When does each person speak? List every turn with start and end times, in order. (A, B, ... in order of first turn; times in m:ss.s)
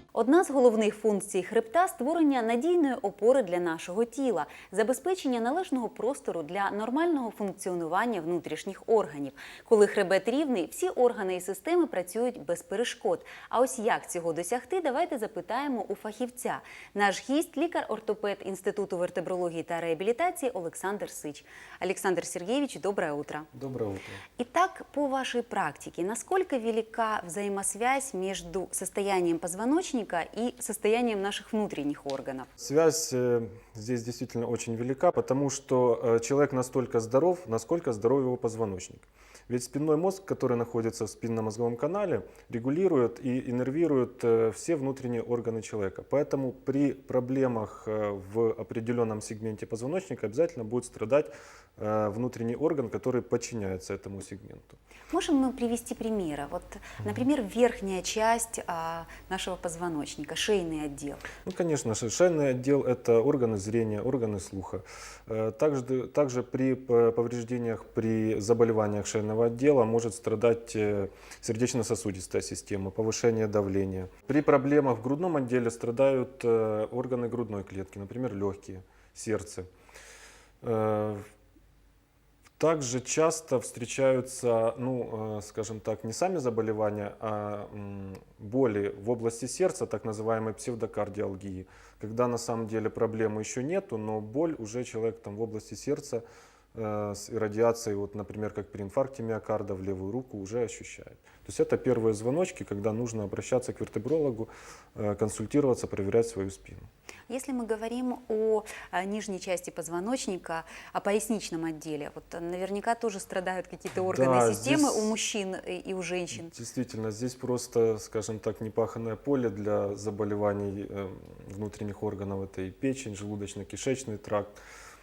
0:00.1-0:23.5 A
0:23.5-0:24.2 B
0:24.4-0:32.5 A
0:32.6-0:54.8 B
0:55.1-1:01.2 A
1:01.5-1:19.7 B
1:20.6-1:21.2 B
1:22.6-1:36.2 B
1:36.8-1:46.9 B
1:47.3-1:56.5 A
1:54.0-1:55.2 B
1:56.3-2:04.6 B